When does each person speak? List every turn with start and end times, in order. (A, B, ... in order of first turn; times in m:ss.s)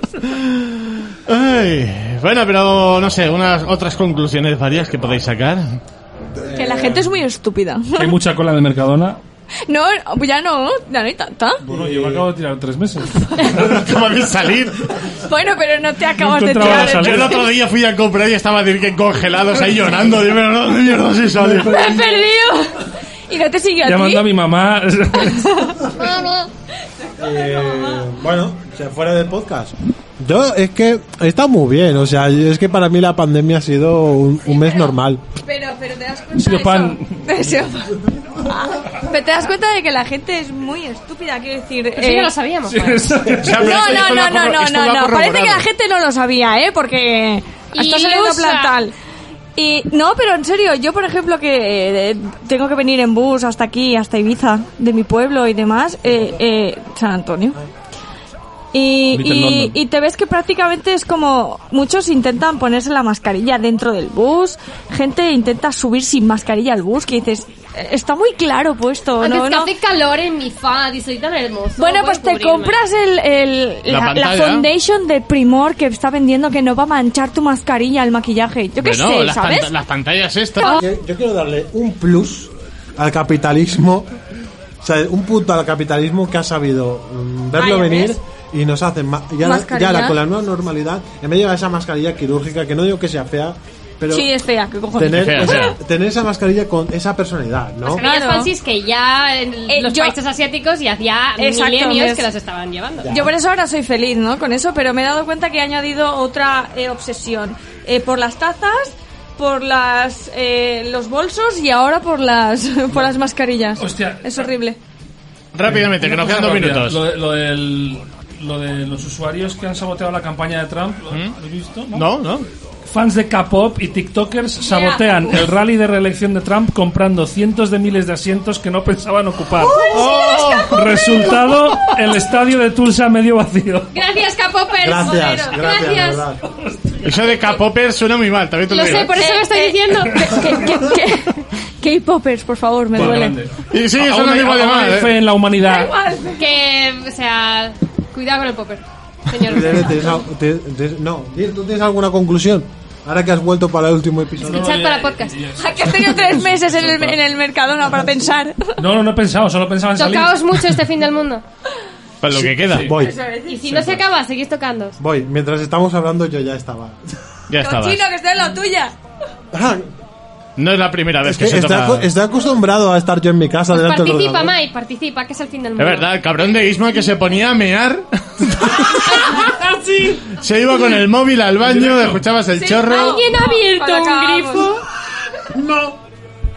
0:00.2-0:05.8 A
0:06.4-0:07.1 B
0:06.6-0:08.2 C
0:07.9-0:09.2 D
0:09.7-0:11.6 C
0:11.6-0:13.9 D
0:11.7-0:12.3 B
0:13.3-0:13.5 C
0:13.4-0:15.0 A
0:15.2-0:17.5 C
0:16.2-0:17.4 D
0:16.6-0:21.8 A
0:21.4-0:22.2 B
0:21.6-0:24.3 C
0:23.8-0:25.8 D
0:25.2-0:26.5 C
0:26.1-0:26.4 E
0:27.0-0:28.1 C
0:27.2-0:35.2 B
0:34.5-0:42.3 C
0:36.4-0:37.7 D
0:42.0-0:43.1 E
0:42.7-0:43.8 D
0:43.3-0:45.7 A
0:43.5-0:48.9 C
0:47.8-0:48.7 E
0:49.6-0:57.6 C
0:58.7-1:09.7 C
0:59.1-0:59.8 D
1:09.2-1:12.8 E
1:11.8-1:19.7 C
1:13.9-1:14.7 A
1:18.8-1:20.7 A
1:20.8-1:24.2 B
1:24.8-1:34.3 B
1:27.6-1:28.1 C
1:29.4-1:30.2 C
1:34.1-1:35.8 C
1:34.9-1:38.0 B
1:35.1-1:35.8 A
1:37.8-1:43.2 E
1:38.0-1:38.5 C
1:39.7-1:40.2 C
1:41.4-1:42.3 C
1:43.0-1:43.3 B
1:43.1-1:54.8 C
1:53.8-1:54.5 D
1:55.5-1:57.0 A
1:55.6-2:02.1 D
2:01.9-2:02.5 A
2:02.8-2:09.8 D
2:04.6-2:05.5 C
2:09.6-2:10.6 C
2:09.7-2:10.7 E
2:09.9-2:11.7 A
2:10.7-2:13.9 D
2:13.9-2:16.0 E
2:14.8-2:16.3 C
2:14.8-2:16.4 B
2:16.5-2:17.4 D
2:17.0-2:19.2 A
2:18.7-2:20.5 E
2:19.2-2:23.4 C
2:22.9-2:26.0 D
2:23.7-2:25.3 A
2:25.6-2:26.5 C
2:26.4-2:30.2 E
2:29.4-2:34.8 B
2:34.4-2:35.4 E
2:34.4-2:37.2 D
2:35.6-2:38.8 C
2:38.8-2:40.7 D
2:40.0-2:41.4 E
2:42.2-2:42.9 A
2:42.4-2:43.2 B
2:42.7-2:43.0 D
2:42.9-2:43.7 C
2:43.5-2:45.0 E
2:43.7-2:44.0 B
2:45.0-2:47.0 B
2:47.5-2:48.0 A
2:47.6-2:49.0 C
2:49.5-2:49.9 B
2:50.6-2:52.1 A
2:51.2-2:54.6 B
2:53.7-2:56.1 E
2:55.8-2:59.3 A
2:59.0-2:59.8 E
3:00.3-3:03.2 A
3:01.6-3:02.2 D
3:02.6-3:04.8 E
3:02.6-3:04.7 C
3:05.5-3:06.0 B